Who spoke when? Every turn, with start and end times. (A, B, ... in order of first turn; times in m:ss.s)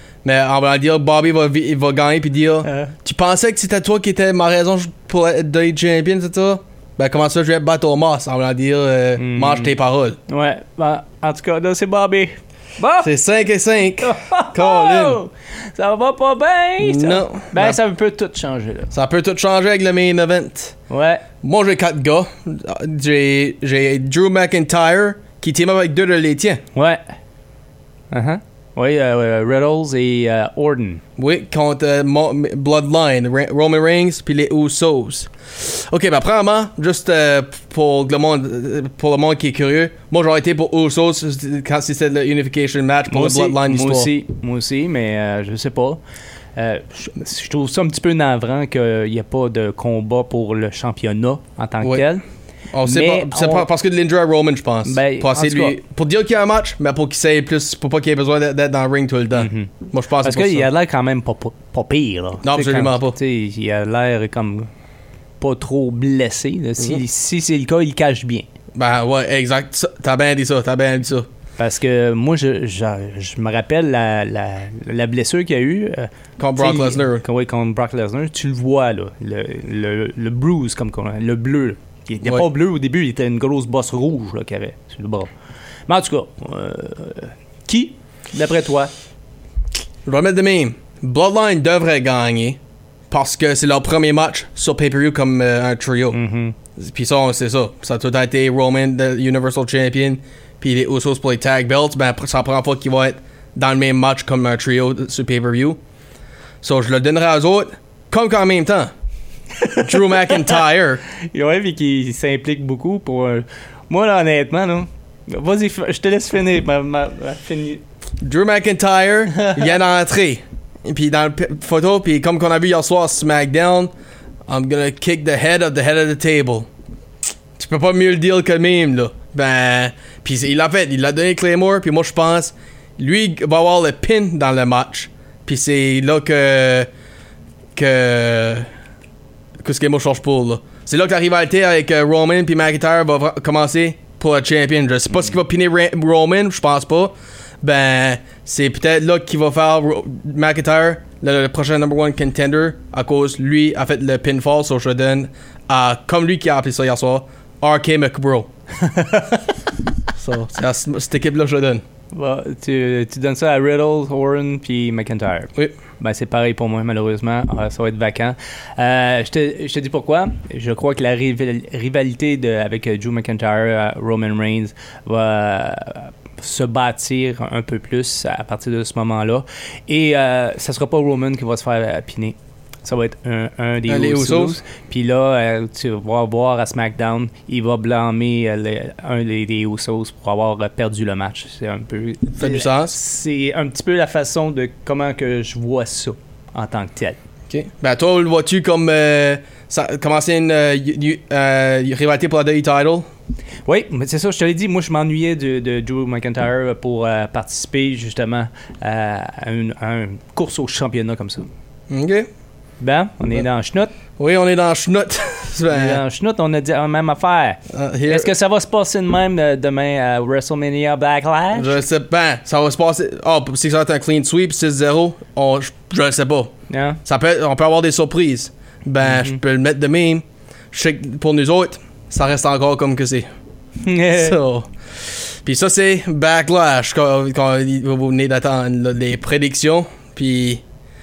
0:00.2-0:10.2 A
0:02.6-0:02.9 B
0:09.2-0:09.7 B
0:10.3-0:13.1 B
0:13.0-0:15.2 A
0:14.0-0:18.9 B
0:16.8-0:17.8 A
0:18.9-0:20.8 A
0:20.9-0:21.3 B
0:21.4-0:26.6 A
0:26.7-0:27.1 B
0:28.1-0:31.0 B
0:31.2-0:44.1 A
0:43.1-0:46.0 B
0:46.6-0:52.2 B
0:51.8-0:52.1 A
0:52.7-1:00.7 A
0:52.8-0:53.7 B
0:54.8-0:55.8 B
0:59.3-1:04.7 B
1:02.4-1:03.2 A
1:05.4-1:08.5 B
1:08.8-1:11.3 A
1:11.6-1:25.3 B
1:16.4-1:17.3 A
1:25.9-1:28.9 B
1:30.1-1:32.6 A
1:33.1-1:36.2 A
1:36.1-1:36.6 B
1:36.8-1:45.8 A
1:46.6-1:48.9 A
1:49.6-1:50.6 B
1:49.8-1:51.0 A
1:51.3-1:57.8 B
1:58.2-2:03.9 A
1:59.4-1:59.7 B
2:04.5-2:06.7 A
2:07.6-2:16.9 A
2:17.8-2:18.7 A
2:19.6-2:38.5 A
2:38.8-2:39.5 B
2:40.2-2:41.8 A
2:42.1-3:17.2 B
3:03.9-3:04.6 A
3:12.4-3:13.0 A
3:17.5-3:23.1 A
3:23.7-3:31.5 B
3:31.9-3:32.3 A
3:32.8-3:33.9 B
3:34.2-3:36.0 A
3:35.7-3:41.8 B
3:37.7-3:38.3 A
3:41.5-3:46.5 A
3:46.7-3:47.0 B
3:47.0-3:53.3 A
3:49.0-3:49.4 B
3:53.8-3:54.4 B
3:54.1-3:54.7 A
3:55.4-4:00.6 A